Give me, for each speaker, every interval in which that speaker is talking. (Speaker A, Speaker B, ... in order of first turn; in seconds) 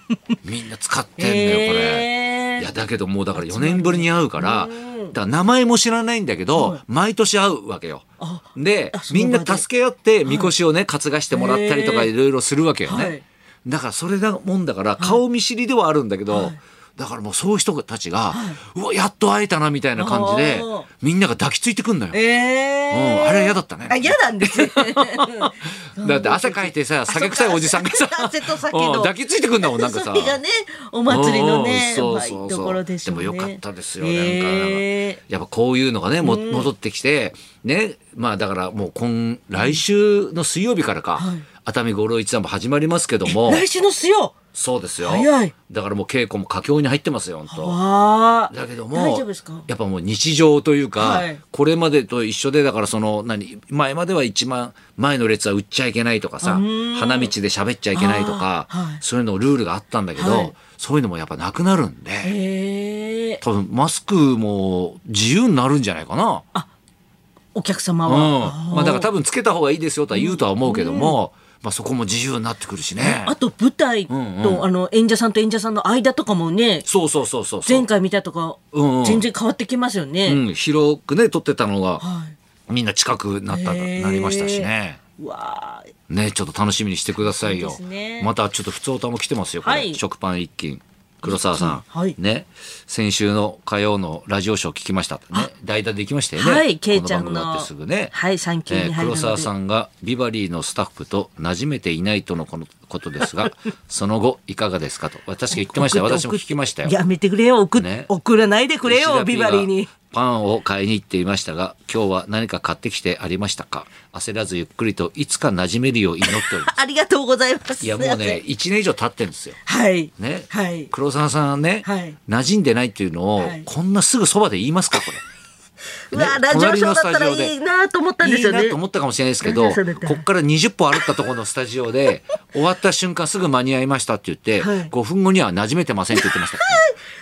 Speaker A: 0.4-8.1, 8.6-22.2, 22.9-30.4, 31.1-43.6, 44.5-47.8, 48.5-62.3, 63.4-66.5, 68.1-73.3, 74.1-74.7, 76.9-77.9, 78.7-79.3, 80.2-82.0, 82.7-85.0, 86.1-98.1, 98.7-107.0, 107.8-108.1, 108.8-116.7, 117.8-119.6, 120.2-125.2, 126.1-127.5, 128.2-136.8
Speaker B: 1.2-2.7, 3.4-5.2, 6.5-6.8, 8.2-9.6, 10.2-10.5, 11.3-12.1, 12.8-13.2, 16.3-16.6, 18.3-18.6, 20.0-20.9, 22.1-35.2, 36.2-36.7, 41.2-41.5, 43.3-44.4, 45.0-45.5, 47.5-49.7, 51.0-51.4, 56.4-57.3, 57.9-59.0, 60.2-60.5, 62.2-63.4, 67.5-69.1, 70.1-71.2, 73.0-76.9, 77.7-80.4, 82.0-82.3, 83.5-85.9, 87.2-88.3, 89.6-90.0, 91.2-92.2, 96.4-99.5, 105.5-109.9, 116.2-118.4, 119.7-120.9, 121.8-122.2, 123.4-123.7, 126.1-128.8, 129.4-130.2, 134.6-134.9, 136.2-136.9